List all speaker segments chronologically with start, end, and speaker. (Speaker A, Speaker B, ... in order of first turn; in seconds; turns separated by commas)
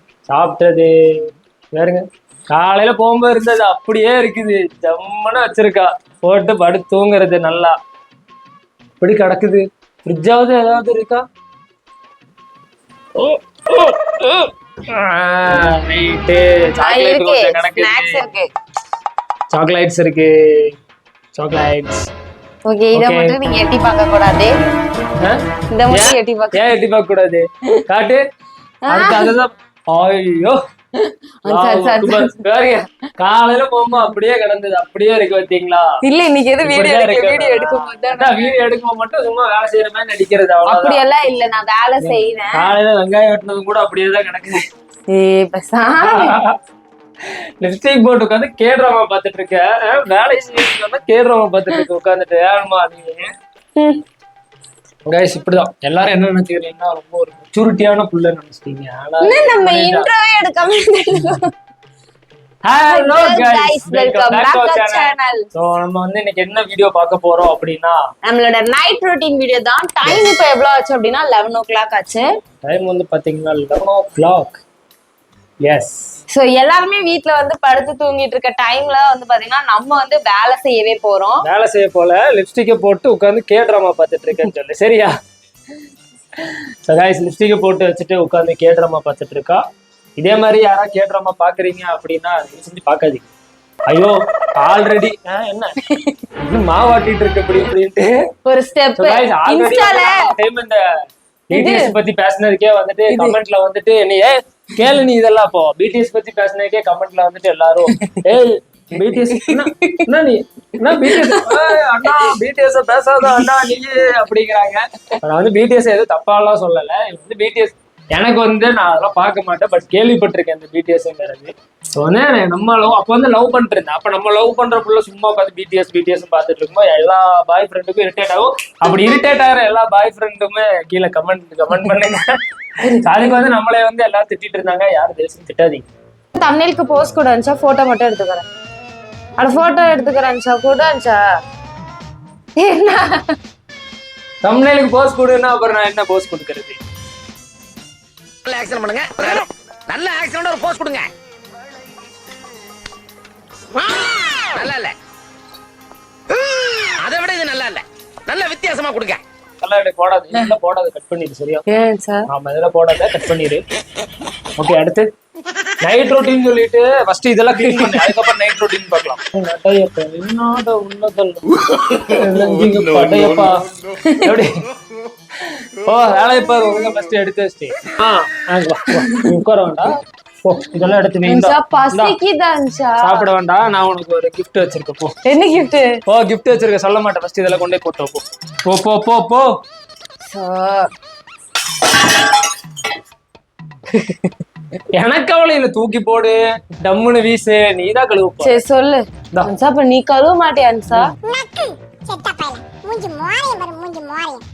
Speaker A: 0.3-7.7, Speaker A: 9.0-11.2, Speaker A: 13.1-18.2, Speaker B: 16.8-18.5, Speaker A: 19.5-20.7, Speaker A: 21.4-22.1, Speaker B: 22.7-24.6, Speaker A: 22.9-23.4, Speaker A: 25.2-28.2, Speaker B: 25.7-26.7, Speaker B: 28.8-29.3, Speaker A: 28.9-30.6, Speaker B: 31.0-32.4, Speaker A: 31.4-35.9, Speaker B: 36.0-38.6, Speaker A: 36.6-41.0, Speaker B: 40.6-42.7, Speaker A: 42.0-44.6, Speaker B: 45.1-46.4, Speaker A: 46.0-46.6, Speaker A: 47.2-53.3, Speaker B: 53.8-54.0, Speaker A: 55.1-60.1, Speaker B: 59.2-61.5, Speaker A: 62.6-68.0, Speaker B: 62.9-65.5, Speaker B: 68.2-72.3, Speaker A: 72.6-74.6, Speaker A: 75.6-76.1, Speaker B: 76.3-81.4, Speaker A: 81.4-85.1, Speaker A: 86.4-89.6, Speaker A: 90.2-93.2, Speaker A: 93.9-95.8, Speaker B: 95.8-96.2, Speaker A: 96.4-98.3, Speaker B: 98.5-100.3, Speaker A: 99.0-100.9, Speaker A: 101.5-135.8, Speaker B: 101.5-102.0, Speaker B: 103.1-103.3, Speaker B: 109.2-110.1, Speaker B: 111.0-112.3, Speaker B: 136.3-138.4, Speaker B: 139.4-141.2, Speaker B: 142.6-143.3, Speaker A: 144.4-146.8, Speaker C: 148.4-151.1, Speaker C: 153.8-154.9, Speaker C: 156.5-159.2, Speaker A: 159.6-161.6, Speaker B: 161.7-162.3, Speaker A: 162.3-163.6, Speaker A: 164.6-165.1, Speaker A: 165.8-173.7, Speaker B: 174.1-174.3, Speaker A: 174.2-174.5, Speaker A: 175.4-182.2, Speaker B: 179.0-179.3, Speaker B: 181.2-183.2, Speaker A: 183.0-185.1, Speaker B: 185.2-186.0, Speaker A: 186.1-189.5, Speaker B: 190.3-190.9, Speaker A: 194.9-198.6, Speaker B: 198.4-204.4, Speaker A: 200.9-201.1